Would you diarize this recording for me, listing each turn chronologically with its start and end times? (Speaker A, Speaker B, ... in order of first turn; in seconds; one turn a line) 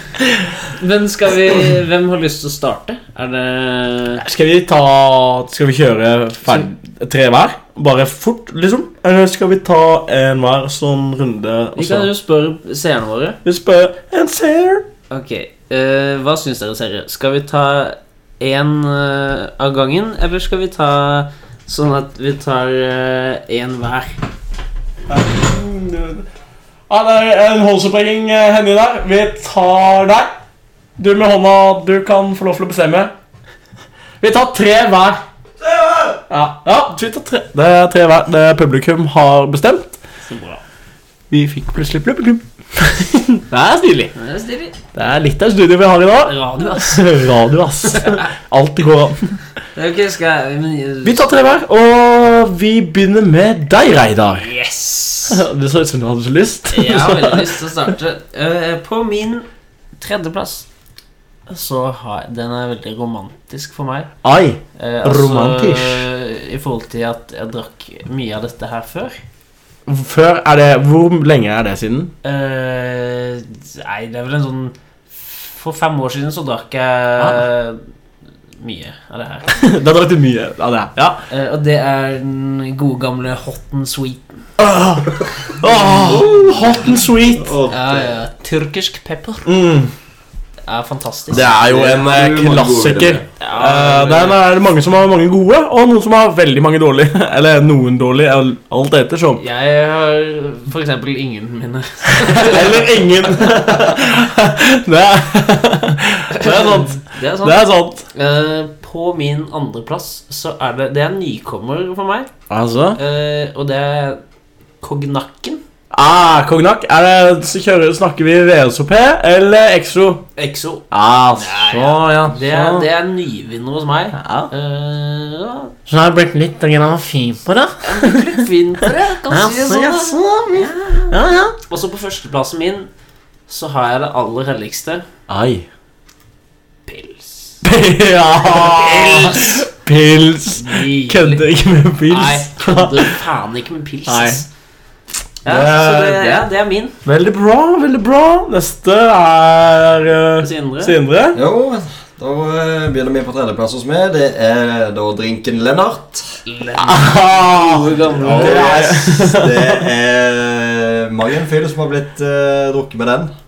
Speaker A: 0.6-4.2
Speaker B: 4.2-12.1
Speaker A: 11.8-13.4
Speaker B: 13.4-14.9
Speaker A: 15.1-24.2
Speaker B: 25.1-26.2
Speaker B: 26.9-30.3
Speaker B: 31.0-33.1
Speaker B: 34.2-35.2
Speaker B: 36.3-40.0
Speaker A: 40.2-40.6
Speaker B: 41.3-44.1
Speaker A: 44.1-44.8
Speaker B: 44.9-49.4
Speaker A: 46.2-47.1
Speaker A: 47.9-48.2
Speaker A: 49.7-51.3
Speaker B: 51.0-54.5
Speaker A: 54.3-55.4
Speaker B: 55.3-57.6
Speaker A: 56.7-59.5
Speaker A: 60.0-60.6
Speaker A: 61.5-64.1
Speaker B: 64.2-66.0
Speaker A: 64.8-69.2
Speaker B: 69.8-72.1
Speaker A: 72.2-77.8
Speaker B: 77.2-77.4
Speaker A: 78.6-79.5
Speaker B: 79.5-81.2
Speaker A: 81.3-84.5
Speaker B: 84.6-87.6
Speaker A: 85.7-86.9
Speaker C: 86.0-88.1
Speaker A: 87.7-89.5
Speaker B: 89.4-89.9
Speaker A: 90.7-91.5
Speaker B: 91.3-99.4
Speaker C: 91.3-93.2
Speaker A: 93.4-94.4
Speaker A: 99.4-103.6
Speaker B: 102.1-108.0
Speaker A: 106.3-112.3
Speaker B: 112.5-113.0
Speaker A: 112.9-114.2
Speaker A: 114.8-115.6
Speaker B: 115.9-120.2
Speaker A: 120.4-125.7
Speaker B: 120.9-122.8
Speaker B: 124.1-124.5
Speaker B: 125.9-128.4
Speaker A: 127.8-132.9
Speaker B: 129.2-131.5
Speaker A: 133.5-135.1
Speaker B: 135.3-135.7
Speaker A: 136.8-137.6
Speaker B: 137.6-143.2
Speaker A: 138.4-139.7
Speaker A: 140.5-141.5
Speaker A: 142.1-144.5
Speaker B: 144.1-144.4
Speaker A: 145.4-147.0
Speaker B: 145.4-146.5
Speaker B: 147.0-151.4
Speaker A: 150.4-151.0
Speaker C: 151.3-156.4
Speaker A: 156.4-159.2
Speaker B: 156.8-159.8
Speaker C: 158.1-163.3